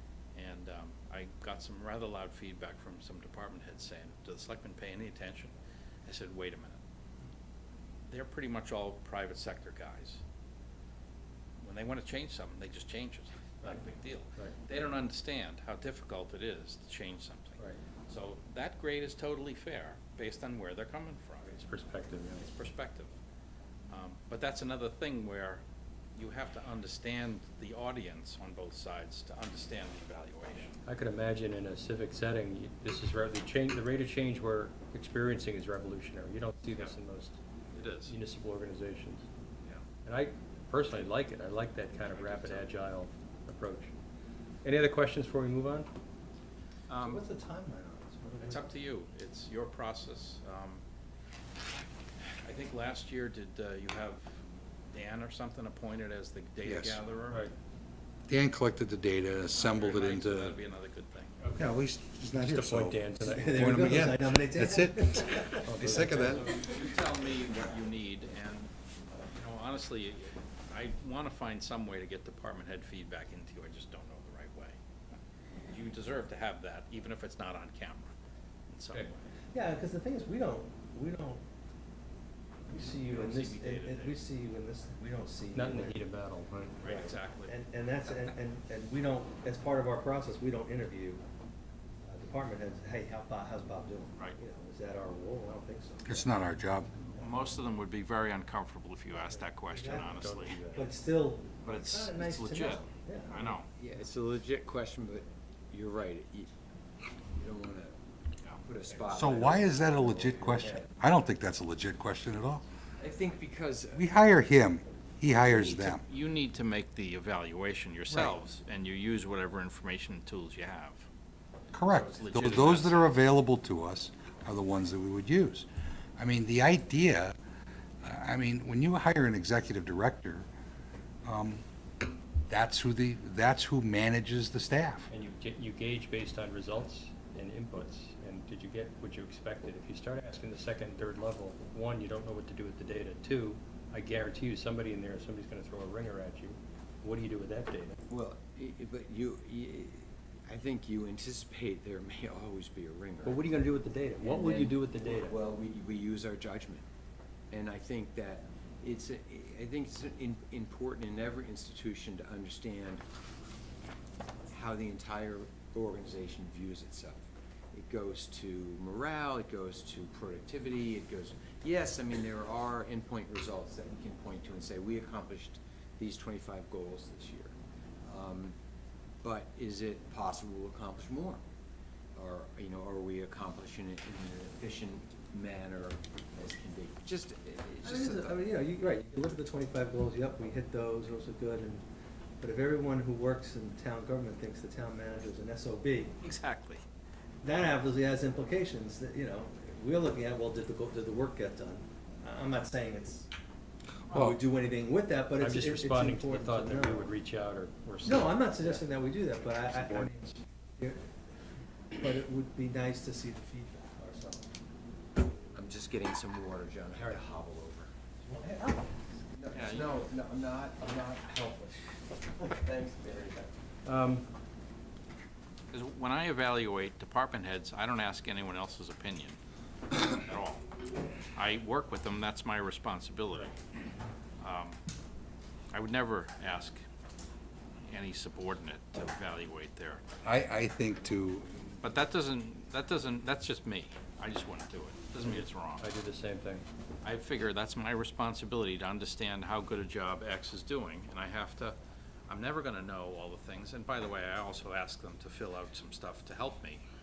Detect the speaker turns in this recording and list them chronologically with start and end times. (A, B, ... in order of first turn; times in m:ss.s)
0:00.3-0:05.5 A
0:06.0-0:06.8 A
0:08.1-0:10.2 A
0:11.6-0:21.5 A
0:21.5-0:22.5 B
0:22.4-0:23.1 A
0:23.9-0:25.6 A
0:26.1-0:30.8 A
0:30.8-0:37.4 B
0:37.7-0:38.1 A
0:38.0-0:39.3 B
0:40.0-0:43.9 B
0:42.1-0:42.7 A
0:44.6-0:45.9 B
0:46.9-0:47.3 A
0:47.0-0:48.6 C
0:48.4-0:50.8 A
0:52.4-0:54.4 A
0:54.9-0:57.4 A
0:56.6-0:57.0 D
0:58.3-1:00.6 D
0:59.5-1:01.4 A
1:01.4-1:01.7 B
1:01.6-1:06.5 D
1:02.4-1:03.8 B
1:03.2-1:05.6 C
1:05.6-1:06.4 B
1:06.1-1:08.7 A
1:09.3-1:14.8 A
1:15.7-1:18.1 A
1:18.7-1:19.2 A
1:19.5-1:21.4 C
1:22.7-1:26.0 C
1:22.8-1:24.2 A
1:25.5-1:26.8 B
1:26.8-1:27.5 A
1:26.8-1:31.2 C
1:32.0-1:36.3 C
1:36.0-1:36.9 D
1:37.2-1:40.6 A
1:39.7-1:40.2 C
1:39.9-1:40.9 B
1:40.7-1:43.5 C
1:41.6-1:43.7 A
1:43.8-1:46.5 E
1:47.4-1:47.9 E
1:48.6-1:50.9 E
1:49.1-1:52.6 D
1:53.0-1:54.1 E
1:53.9-1:56.0 D
1:55.4-2:01.1 A
1:58.1-1:58.3 D
2:01.7-2:07.4 D
2:01.9-2:03.1 A
2:08.0-2:10.5 D
2:11.2-2:11.6 D
2:12.5-2:15.1 D
2:15.1-2:28.0 B
2:28.1-2:33.4 E
2:33.2-2:35.4 B
2:34.2-2:36.8 E
2:37.5-2:43.0 E
2:44.5-2:58.5 E
2:59.2-3:01.4 E
3:02.1-3:08.4 E
3:07.8-3:11.8 C
3:12.4-3:16.2 C
3:16.2-3:16.8 A
3:17.4-3:23.3 C
3:24.1-3:24.3 D
3:24.1-3:27.1 C
3:25.4-3:28.8 B
3:28.0-3:31.0 C
3:29.7-3:30.1 B
3:31.9-3:34.4 C
3:35.5-3:37.9 E
3:38.2-3:38.9 C
3:39.3-3:43.5 E
3:39.5-3:40.0 A
3:43.8-3:44.2 B
3:45.7-3:49.4 A
3:50.2-3:50.6 A
3:51.3-3:53.5 A
3:54.4-3:54.8 A
3:55.7-3:56.8 A
3:57.9-4:00.0 A
4:00.2-4:01.5 D
4:01.8-4:05.9 A
4:05.2-4:06.6 B
4:07.0-4:11.8 A
4:12.3-4:16.8 A